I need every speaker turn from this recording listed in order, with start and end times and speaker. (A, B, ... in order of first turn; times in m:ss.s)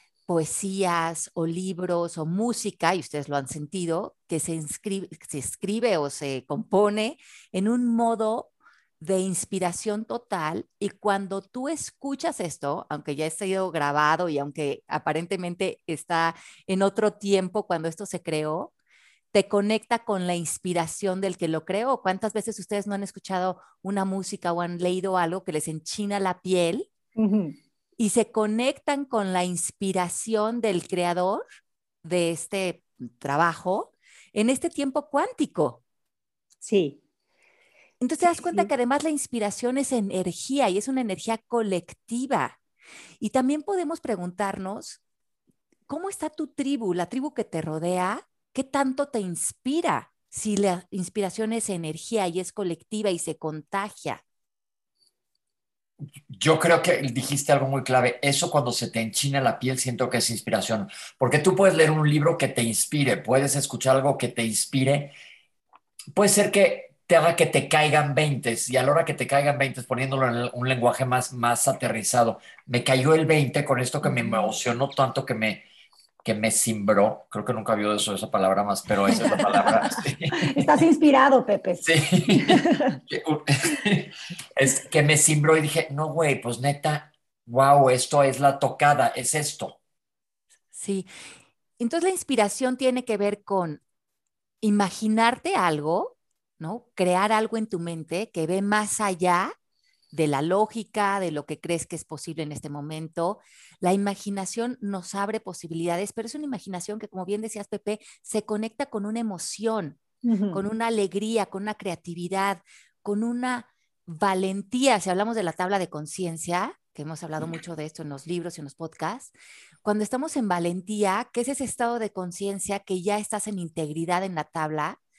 0:00.3-0:18.7 A
0:19.3-0:26.9 A
0:27.2-0:27.6 B
0:28.0-0:31.4 A
0:32.0-0:35.8 A
0:36.6-0:37.0 B
0:38.0-0:42.6 A
0:38.2-0:38.7 B
0:43.2-0:45.0 A
0:45.9-0:54.2 A
0:56.3-1:05.1 C
1:06.1-1:15.6 C
1:16.2-1:20.7 C
1:19.2-1:19.6 B
1:20.3-1:23.0 B
1:21.8-1:29.8 C
1:30.7-1:31.1 A
1:31.8-1:33.8 A
1:34.6-1:39.5 A
1:40.1-1:50.0 A
1:50.2-1:50.6 B
1:50.5-1:59.3 A
1:59.8-2:05.0 A